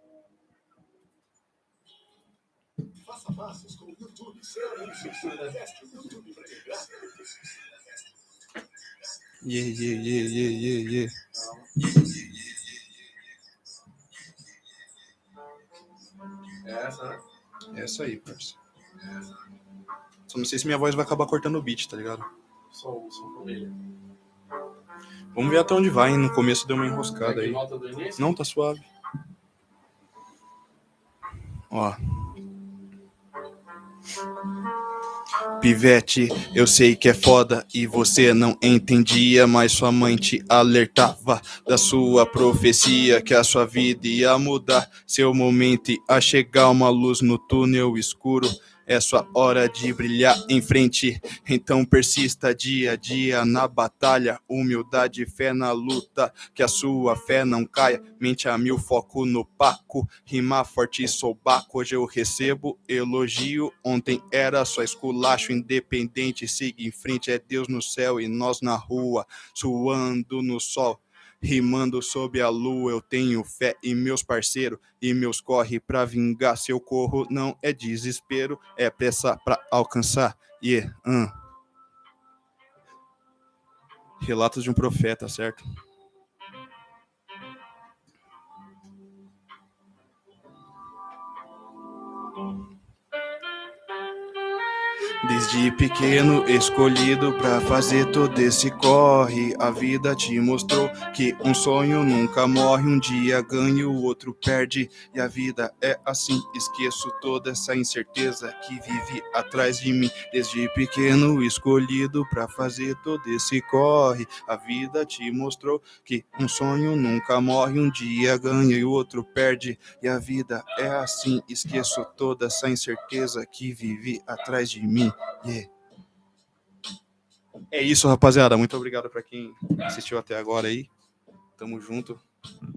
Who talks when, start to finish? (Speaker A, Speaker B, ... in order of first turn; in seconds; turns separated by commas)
Speaker A: 3.1-7.1, Speaker B: 9.4-11.2, Speaker A: 11.3-11.7, Speaker A: 16.6-17.2, Speaker B: 17.7-18.6, Speaker B: 20.3-22.3, Speaker A: 22.7-23.8, Speaker B: 25.3-27.6, Speaker A: 27.2-28.3, Speaker B: 28.2-28.9, Speaker B: 31.7-32.0, Speaker B: 35.6-81.3, Speaker B: 84.2-85.7, Speaker B: 95.2-125.7, Speaker B: 127.7-130.9, Speaker B: 131.6-132.2